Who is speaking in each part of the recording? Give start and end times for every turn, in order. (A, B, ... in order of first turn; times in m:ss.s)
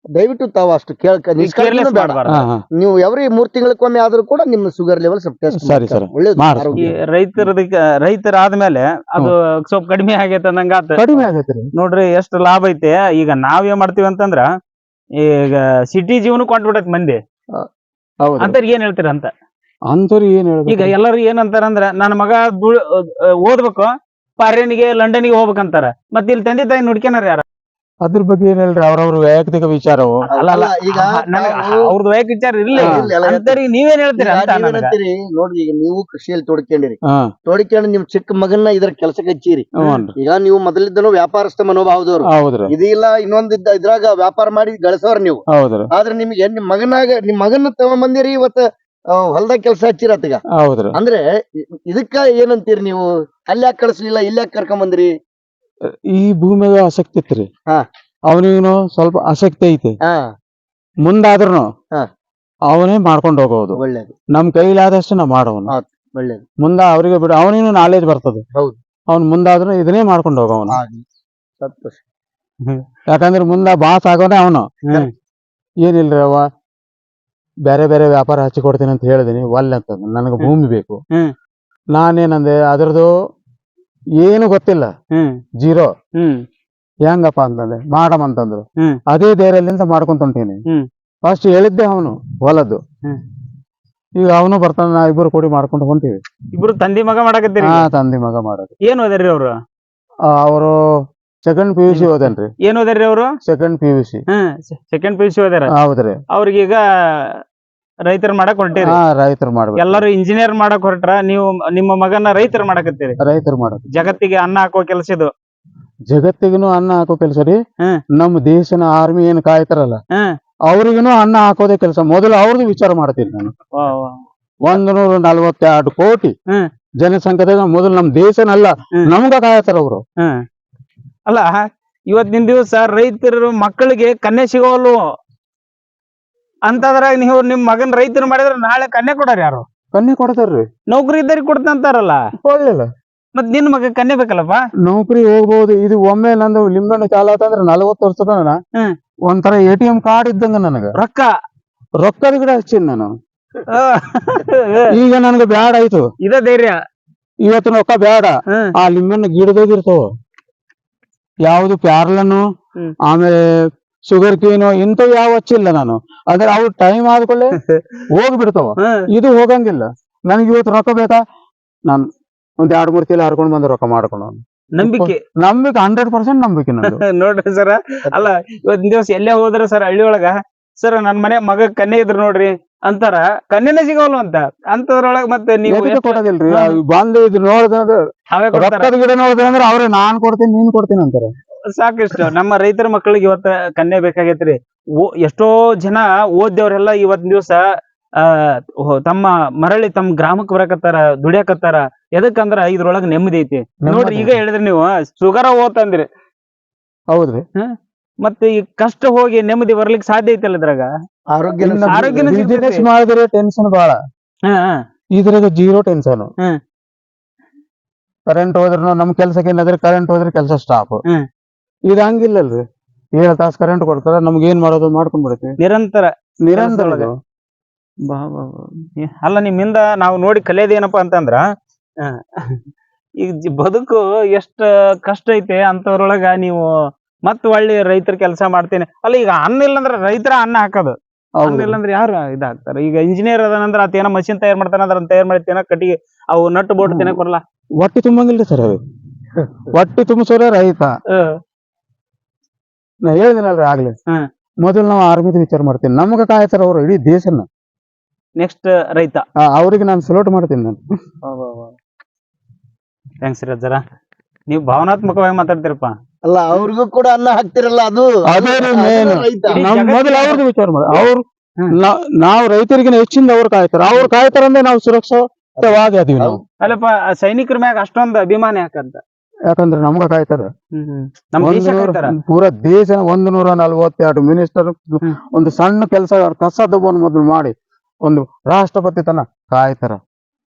0:00.2-0:02.2 A
0:01.4-0:02.5 B
0:02.3-0:02.6 C
0:02.7-0:06.9 A
0:05.6-0:06.9 C
0:06.8-0:14.5 B
0:11.0-0:11.7 C
0:15.2-0:17.2 B
0:18.2-0:18.6 C
0:18.4-0:19.3 B
0:19.9-0:20.9 C
0:20.7-0:27.4 B
0:28.0-0:30.2 C
0:30.3-0:34.9 B
0:30.3-0:31.9 A
0:32.7-0:33.6 A
0:32.8-0:33.0 C
0:34.2-0:50.4 A
0:39.8-0:40.2 C
0:42.3-0:42.7 C
0:45.5-0:45.9 C
0:50.6-0:51.0 C
0:51.0-0:51.2 A
0:51.9-0:55.1 A
0:56.1-0:57.5 C
0:58.3-1:00.0 C
1:01.0-1:01.7 C
1:02.7-1:03.8 C
1:03.8-1:04.1 A
1:04.3-1:05.7 C
1:05.7-1:06.4 A
1:06.6-1:08.4 C
1:09.1-1:10.8 C
1:10.7-1:11.0 A
1:11.6-1:12.0 A
1:13.1-1:14.8 C
1:15.8-1:16.4 C
1:17.7-1:21.0 C
1:22.0-1:23.1 C
1:24.2-1:24.9 C
1:25.6-1:25.9 C
1:26.2-1:26.4 B
1:27.1-1:30.6 C
1:31.2-1:32.8 C
1:34.2-1:36.2 C
1:36.5-1:37.9 B
1:37.6-1:38.7 C
1:38.9-1:39.5 B
1:40.3-1:40.8 C
1:41.4-1:42.5 C
1:41.9-1:43.3 B
1:43.5-1:44.2 C
1:44.3-1:45.7 B
1:45.8-1:46.2 C
1:46.3-1:47.4 B
1:48.1-1:49.0 B
1:48.8-1:50.0 C
1:49.8-1:53.2 B
1:53.2-1:54.2 C
1:53.9-1:55.3 B
1:56.1-1:57.6 C
1:58.2-2:00.0 C
2:00.7-2:03.5 C
2:03.7-2:04.8 B
2:04.6-2:06.3 C
2:07.0-2:10.0 C
2:11.3-2:11.6 B
2:12.1-2:15.0 B
2:16.7-2:19.6 B
2:19.9-2:20.7 C
2:20.9-2:22.2 B
2:22.4-2:22.9 C
2:23.4-2:24.6 B
2:24.9-2:28.6 C
2:29.3-2:30.9 C
2:31.0-2:31.3 B
2:32.0-2:33.1 C
2:33.7-2:34.9 B
2:34.9-2:36.1 C
2:36.2-2:36.8 B
2:37.4-2:40.1 C
2:41.5-2:42.4 C
2:43.1-2:43.4 C
2:44.1-2:47.6 C
2:47.6-2:48.0 B
2:48.1-2:51.2 C
2:52.6-2:57.0 C
2:54.8-2:55.2 B
2:56.8-3:06.8 B
3:05.7-3:08.0 C
3:08.3-3:08.9 B
3:08.5-3:11.3 C
3:11.7-3:17.6 B
3:18.2-3:26.1 B
3:23.8-3:24.4 C
3:27.1-3:27.4 C
3:28.2-3:30.9 B
3:31.3-3:32.3 A
3:31.6-3:34.0 C
3:31.9-3:32.9 B
3:34.5-3:34.8 B
3:35.2-3:36.3 C
3:38.3-3:41.0 C
3:41.9-3:42.6 C
3:43.2-3:45.5 C
3:45.6-3:47.1 B
3:46.5-3:47.1 C
3:48.0-3:51.4 B
3:52.0-3:52.6 B
3:53.2-3:56.7 B
3:57.3-4:07.4 B
4:01.4-4:01.8 C
4:06.8-4:07.2 C
4:07.8-4:08.8 C
4:09.7-4:10.9 C
4:11.1-4:11.4 B
4:13.1-4:13.9 C
4:14.6-4:17.5 C
4:18.4-4:19.2 B
4:19.5-4:20.8 C
4:21.3-4:21.7 A
4:23.2-4:23.8 B
4:24.5-4:25.9 B
4:26.2-4:29.6 A
4:28.2-4:36.4 C
4:29.5-4:30.4 B
4:35.6-4:36.4 A
4:36.6-4:39.0 B
4:39.5-4:40.5 C
4:40.8-4:42.1 B
4:41.4-4:47.5 C
4:48.0-4:50.0 C